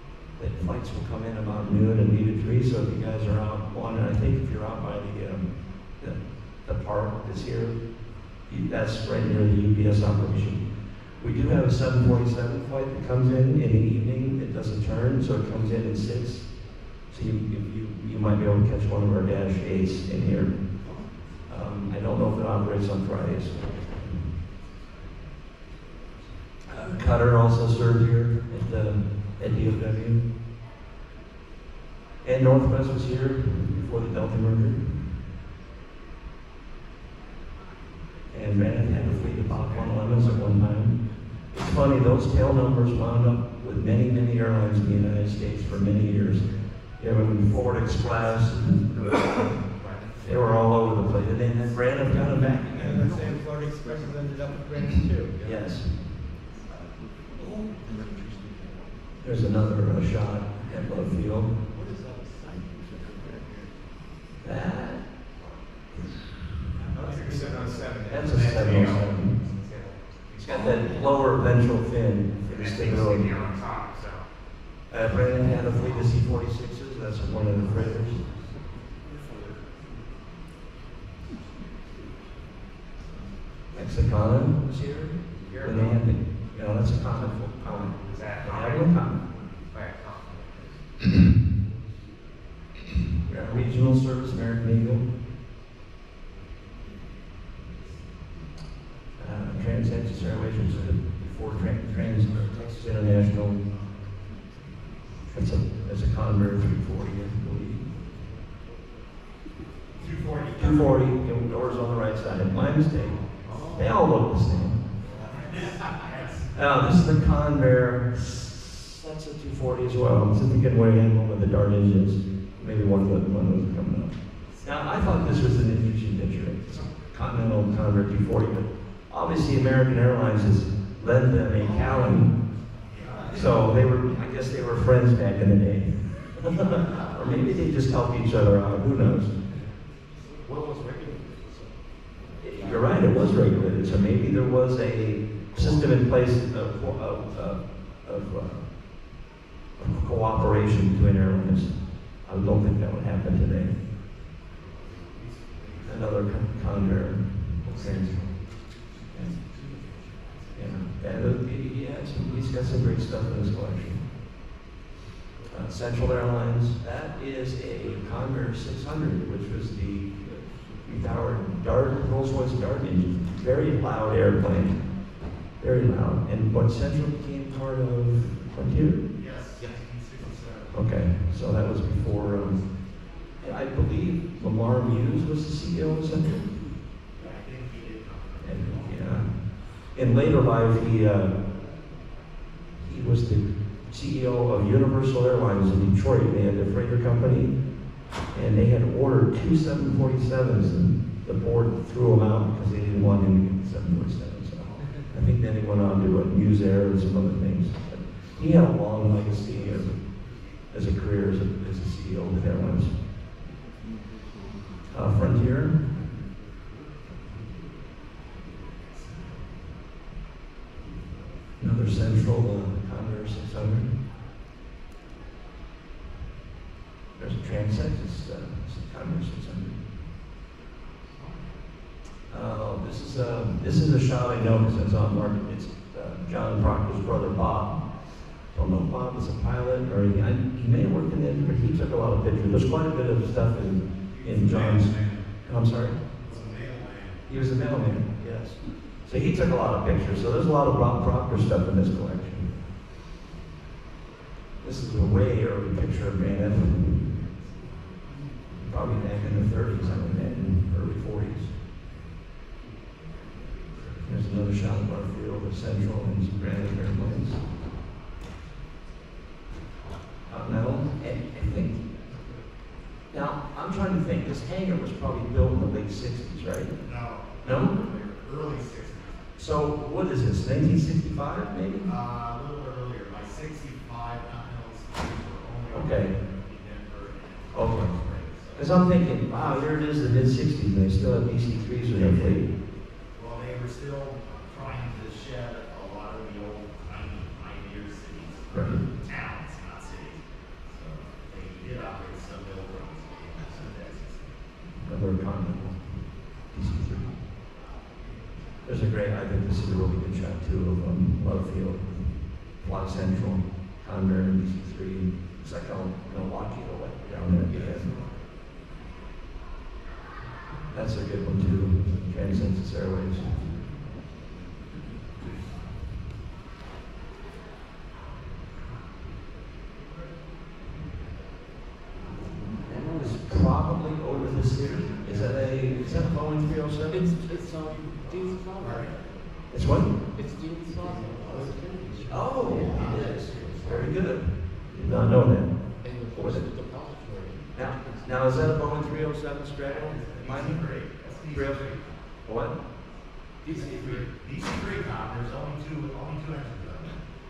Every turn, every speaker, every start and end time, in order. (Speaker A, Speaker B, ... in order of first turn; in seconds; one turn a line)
Speaker A: 0.4-24.2
Speaker B: 20.8-21.2
Speaker A: 26.7-30.2
Speaker A: 32.2-35.1
Speaker A: 38.3-53.2
Speaker B: 38.9-40.4
Speaker B: 49.8-51.0
Speaker C: 52.7-55.4
Speaker A: 55.4-56.2
Speaker B: 57.4-58.9
Speaker A: 59.2-61.5
Speaker B: 61.7-63.7
Speaker A: 64.4-65.2
Speaker A: 66.0-66.3
Speaker C: 66.9-68.5
Speaker D: 67.0-70.6
Speaker A: 67.2-69.4
Speaker A: 70.3-73.4
Speaker E: 70.5-71.0
Speaker D: 72.5-74.3
Speaker A: 74.9-78.2
Speaker B: 79.0-79.6
Speaker A: 83.7-89.3
Speaker D: 85.5-86.1
Speaker D: 87.6-90.8
Speaker A: 93.3-95.1
Speaker A: 99.2-103.6
Speaker B: 102.5-102.8
Speaker A: 105.3-107.9
Speaker E: 110.0-111.1
Speaker A: 110.6-114.9
Speaker B: 113.4-113.9
Speaker E: 115.2-116.6
Speaker A: 116.5-132.4
Speaker E: 131.6-132.2
Speaker E: 132.8-133.5
Speaker A: 133.3-139.3
Speaker B: 140.3-143.9
Speaker A: 142.4-149.1
Speaker B: 145.6-145.9
Speaker A: 149.8-153.8
Speaker E: 154.6-156.1
Speaker A: 155.8-158.5
Speaker B: 157.6-158.8
Speaker A: 159.1-159.4
Speaker B: 159.7-160.1
Speaker A: 160.5-164.1
Speaker A: 165.5-179.1
Speaker E: 179.1-180.8
Speaker A: 180.7-186.7
Speaker E: 187.2-189.0
Speaker A: 188.4-191.4
Speaker A: 192.8-213.0
Speaker A: 214.9-215.9
Speaker E: 218.5-219.7
Speaker A: 221.6-223.9
Speaker A: 227.2-229.8
Speaker A: 232.3-246.0
Speaker E: 244.1-245.2
Speaker E: 246.2-247.2
Speaker A: 247.3-252.5
Speaker A: 254.6-257.2
Speaker A: 258.5-261.5
Speaker A: 263.9-267.4
Speaker A: 270.3-271.9
Speaker A: 273.1-277.8
Speaker E: 276.8-279.2
Speaker A: 279.4-281.9
Speaker E: 281.8-288.9
Speaker A: 285.7-286.2
Speaker A: 287.5-288.0
Speaker A: 288.5-292.5
Speaker E: 291.9-292.4
Speaker E: 293.1-304.3
Speaker A: 298.5-298.9
Speaker A: 304.8-307.2
Speaker A: 308.6-318.0
Speaker B: 317.5-318.1
Speaker A: 320.7-323.5
Speaker B: 332.6-333.2
Speaker A: 332.6-337.2
Speaker E: 334.5-336.1
Speaker B: 336.9-339.2
Speaker E: 337.3-339.3
Speaker A: 339.5-340.0
Speaker B: 340.1-343.2
Speaker E: 340.8-344.0
Speaker A: 342.1-351.7
Speaker B: 345.8-348.3
Speaker E: 349.6-352.0
Speaker A: 352.2-352.6
Speaker B: 353.4-354.1
Speaker E: 353.5-356.9